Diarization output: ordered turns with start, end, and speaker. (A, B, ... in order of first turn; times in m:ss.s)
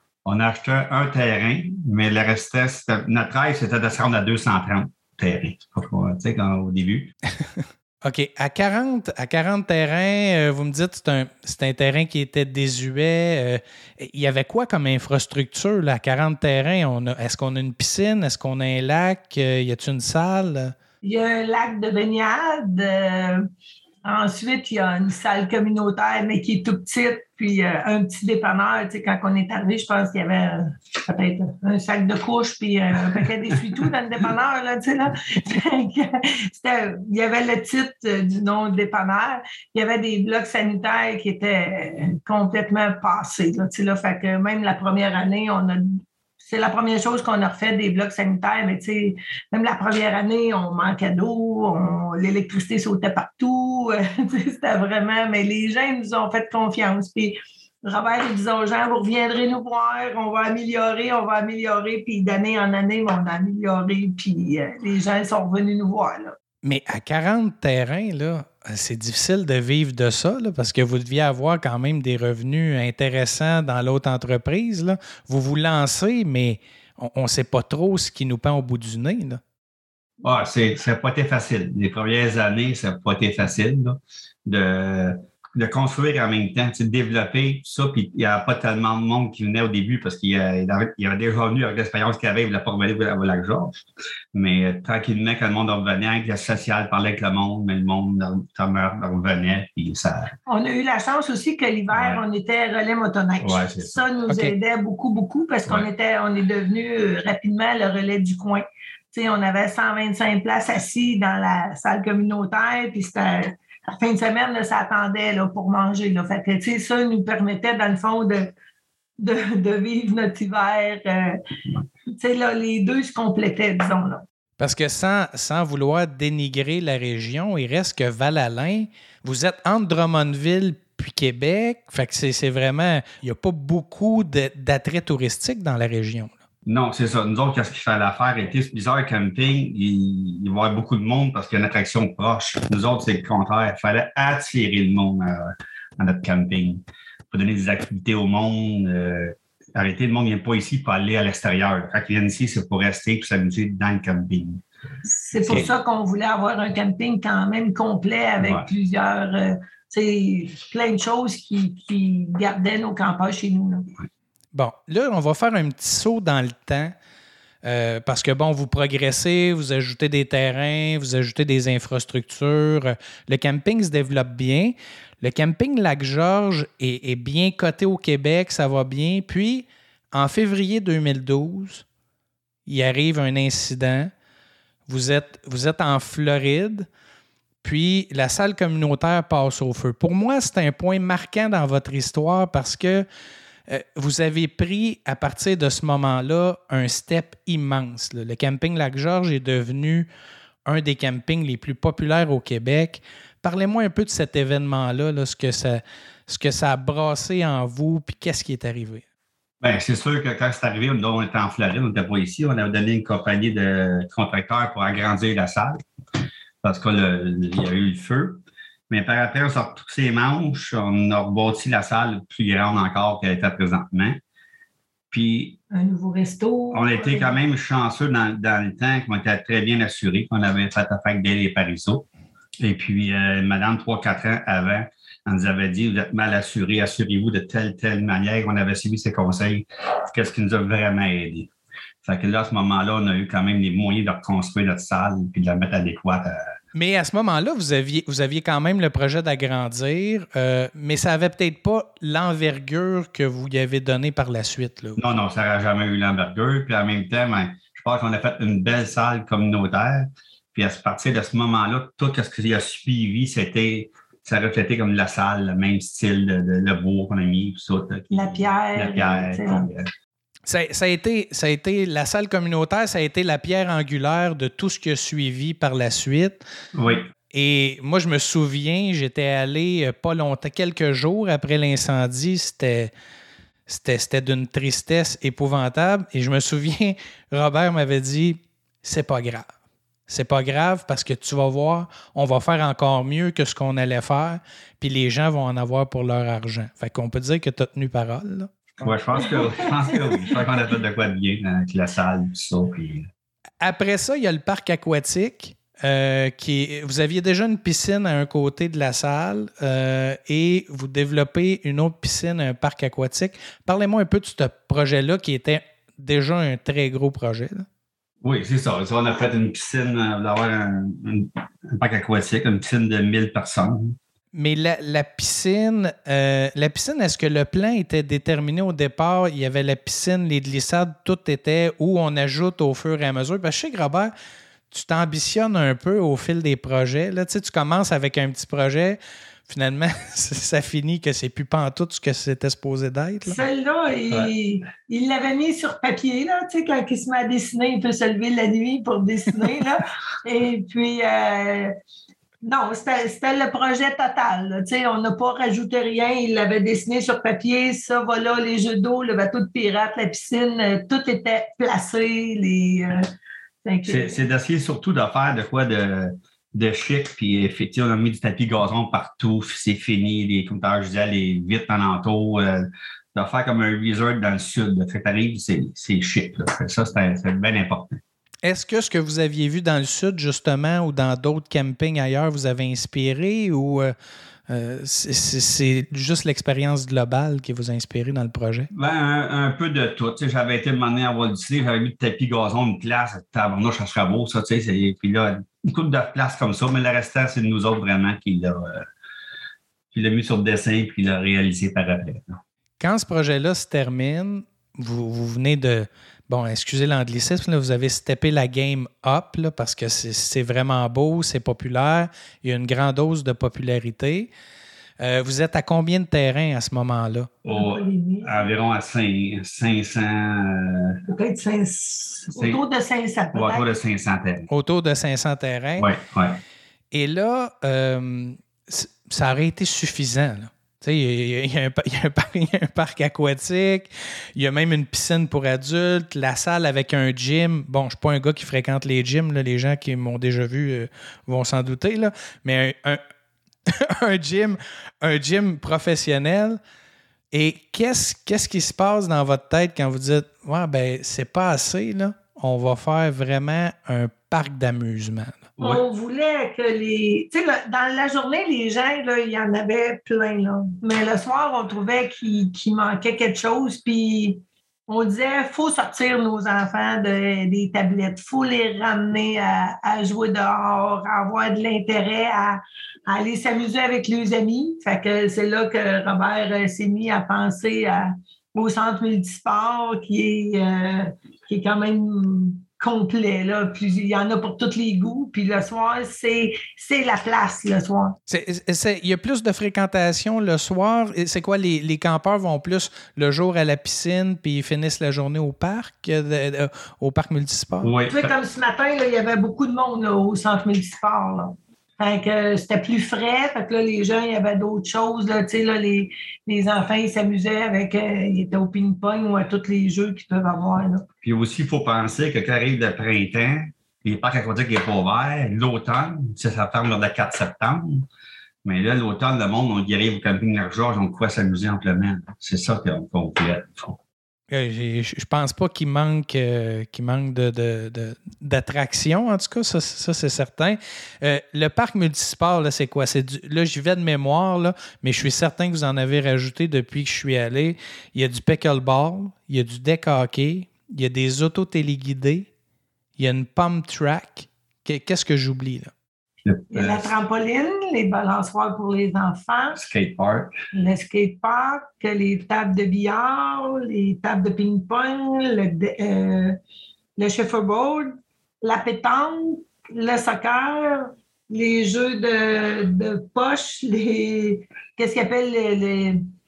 0:00.2-0:07.1 A
0:07.6-0:20.8 B
0:21.0-0:23.5 C
0:24.0-1:06.4 C
1:06.6-1:19.4 B
1:20.2-1:40.3 A
1:40.5-1:58.5 C
1:41.9-1:42.2 A
1:43.4-1:44.0 A
1:44.3-1:44.6 B
1:59.2-2:01.4 C
2:02.1-2:04.2 C
2:04.6-2:16.4 B
2:16.7-2:34.6 A
2:35.2-2:43.9 C
2:35.4-2:35.8 A
2:38.4-2:38.7 A
2:44.5-2:46.9 B
2:47.6-3:01.9 B
3:02.7-3:04.1 B
3:04.9-3:06.9 B
3:07.6-3:13.1 B
3:13.7-3:20.1 B
3:20.7-3:29.0 B
3:29.6-3:35.8 A
3:36.6-3:44.2 A
3:45.1-3:45.6 A
3:45.7-3:47.4 C
3:46.7-3:52.1 A
3:52.6-4:01.5 A
4:02.0-4:06.5 A
4:06.7-4:15.0 B
4:15.0-4:29.9 A
4:28.1-4:29.7 C
4:30.5-4:36.4 B
4:36.7-4:37.1 A
4:37.3-4:42.9 B
4:43.7-4:49.5 B
4:50.1-4:58.7 B
4:58.8-5:03.1 A
4:59.2-5:00.4 C
5:03.6-5:17.7 B
5:18.2-5:24.0 A
5:24.3-5:34.1 B
5:34.7-5:43.4 B
5:43.2-5:51.8 C
5:52.4-6:03.1 C
6:03.6-6:04.2 C
6:03.9-6:18.0 A
6:18.4-6:23.9 B
6:24.5-6:28.7 B
6:28.7-6:38.9 A
6:39.9-6:42.4 A
6:42.8-6:54.3 B
6:55.0-6:57.3 B
6:57.4-7:01.0 A
6:57.5-6:58.5 C
7:01.1-7:03.7 C
7:02.3-7:02.6 A
7:03.3-7:04.5 A
7:04.5-7:05.9 B
7:05.8-7:06.4 A
7:06.9-7:23.0 B
7:23.7-7:26.6 B
7:27.3-7:35.5 B
7:35.6-8:08.2 C
8:08.3-8:17.9 B
8:17.8-8:18.4 A
8:18.1-8:31.1 C
8:31.2-8:38.1 A
8:38.6-8:44.0 A
8:44.5-9:02.5 B
9:03.2-9:05.9 B
9:06.4-9:07.1 A
9:06.7-9:09.8 C
9:09.8-9:10.5 A
9:10.7-9:16.6 C
9:17.2-9:26.2 C